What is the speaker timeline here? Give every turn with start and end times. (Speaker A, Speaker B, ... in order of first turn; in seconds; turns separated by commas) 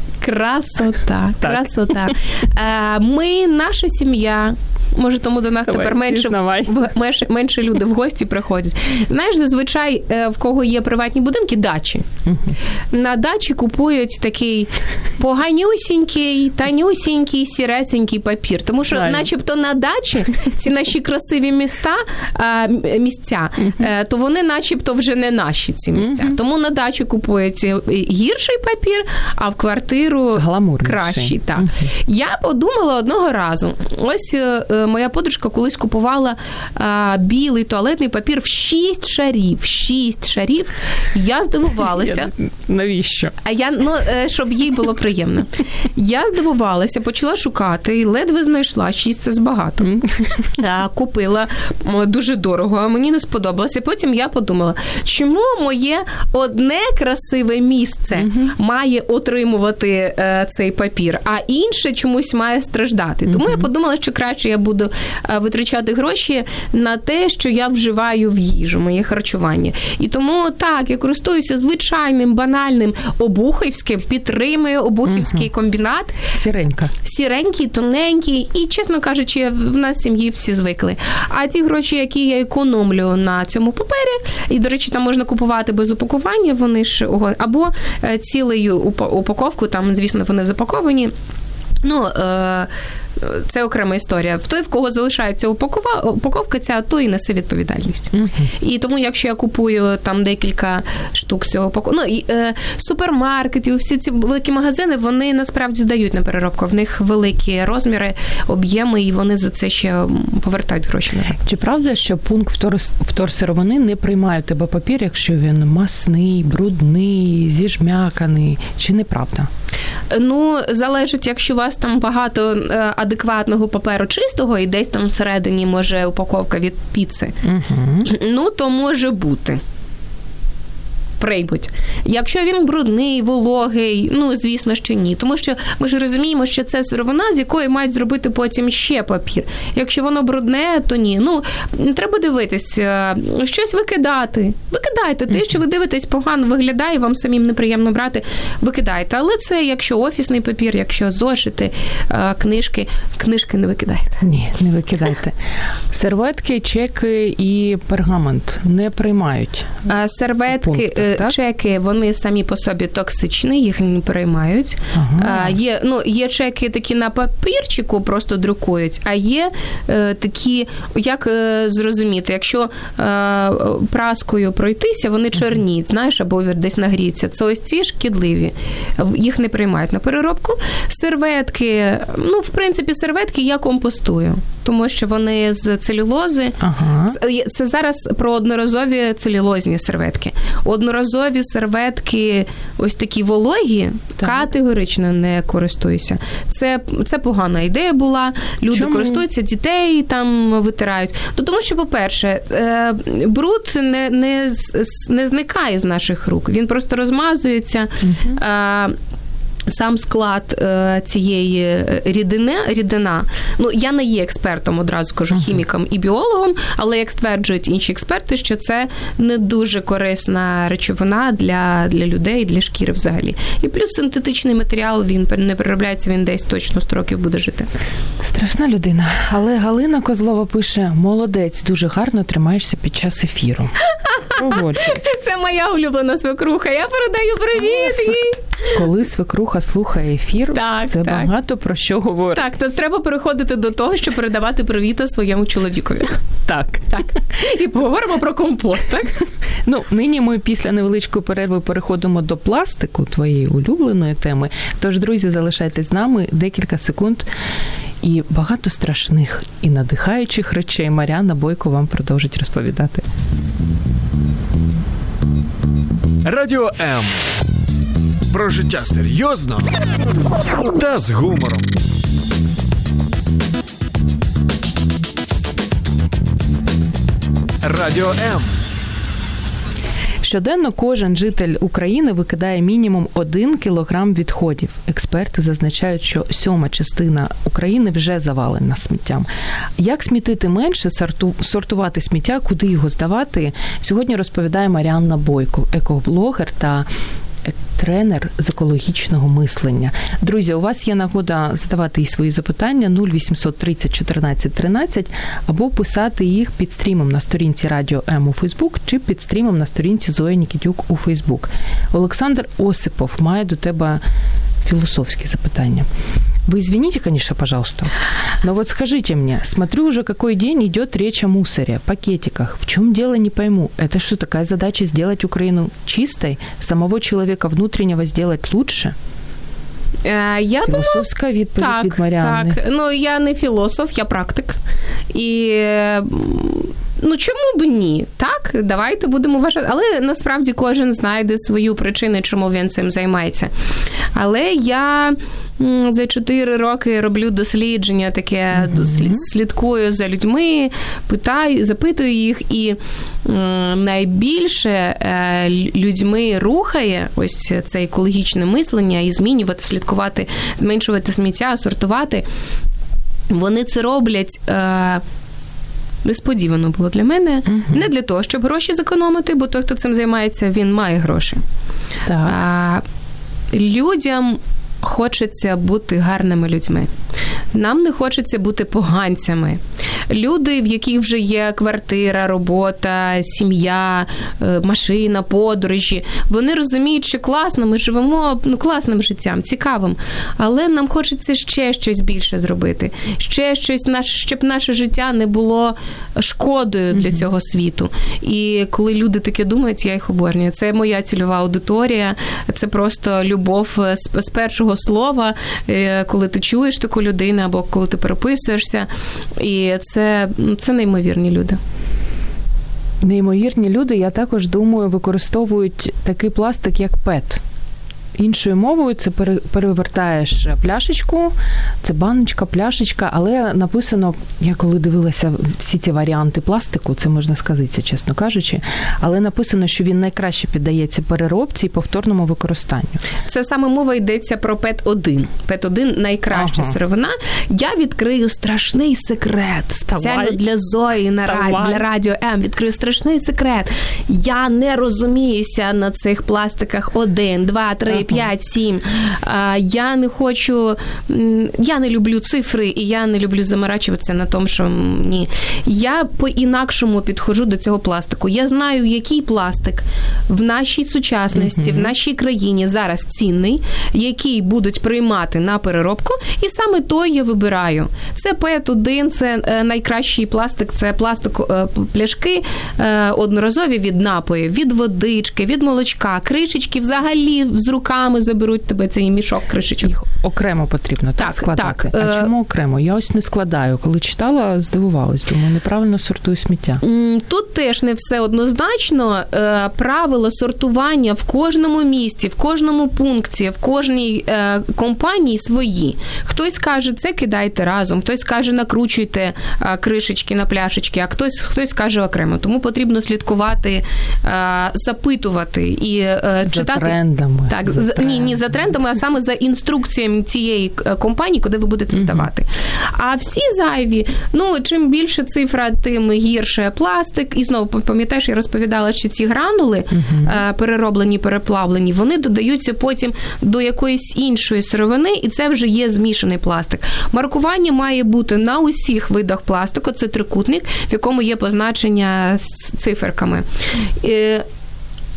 Speaker A: 0.2-12.1, Speaker B: 1.4-2.1, Speaker B: 5.7-6.9, Speaker B: 12.2-12.6, Speaker A: 12.9-42.3, Speaker B: 18.9-19.3, Speaker B: 25.9-26.4, Speaker B: 30.4-31.8, Speaker B: 41.8-43.3, Speaker A: 43.4-49.9, Speaker B: 49.8-50.5, Speaker A: 50.6-76.2, Speaker B: 58.2-58.5, Speaker B: 63.3-63.7, Speaker B: 75.0-75.5, Speaker B: 76.3-76.9, Speaker A: 77.0-91.1, Speaker A: 91.8-111.4, Speaker B: 98.1-98.5, Speaker B: 111.3-119.5, Speaker A: 120.1-127.4, Speaker B: 127.4-128.1, Speaker A: 128.0-129.6, Speaker A: 131.2-154.2, Speaker B: 154.2-155.4, Speaker B: 155.9-159.8, Speaker A: 159.8-208.9, Speaker B: 160.5-161.3, Speaker B: 164.9-165.6, Speaker B: 186.6-187.2, Speaker B: 194.2-194.5, Speaker B: 198.7-199.2, Speaker B: 208.0-208.4, Speaker A: 209.7-227.7, Speaker B: 215.3-215.6, Speaker B: 228.2-233.7, Speaker A: 233.8-238.8, Speaker B: 234.3-235.1, Speaker B: 237.6-238.2, Speaker B: 238.7-242.5, Speaker A: 240.5-241.3, Speaker A: 242.3-246.2, Speaker B: 246.5-247.0, Speaker A: 246.9-249.2, Speaker B: 249.7-257.2, Speaker B: 258.0-263.0, Speaker C: 266.2-267.2, Speaker C: 268.3-269.7, Speaker C: 270.7-271.7, Speaker C: 277.6-278.5, Speaker B: 280.2-296.9, Speaker B: 297.4-314.0, Speaker B: 314.6-315.9, Speaker B: 316.5-328.9, Speaker A: 330.0-334.6, Speaker B: 330.7-332.6, Speaker A: 335.1-343.5, Speaker A: 344.1-362.2, Speaker B: 348.6-349.2, Speaker A: 363.3-365.0, Speaker A: 366.0-371.4, Speaker B: 367.5-367.8, Speaker B: 372.1-372.4, Speaker A: 372.2-372.8, Speaker A: 373.5-376.9, Speaker A: 377.5-411.6, Speaker B: 396.9-397.2, Speaker B: 413.0-417.4, Speaker B: 418.1-433.0, Speaker A: 433.2-480.0, Speaker B: 436.3-436.8, Speaker B: 440.0-440.4, Speaker B: 441.2-441.8, Speaker B: 447.9-448.2, Speaker B: 461.3-461.9, Speaker B: 479.8-486.8, Speaker A: 481.2-482.3, Speaker A: 486.8-506.9, Speaker B: 506.4-508.5, Speaker A: 507.5-533.5, Speaker B: 511.9-512.3, Speaker B: 519.9-520.4, Speaker A: 534.0-534.4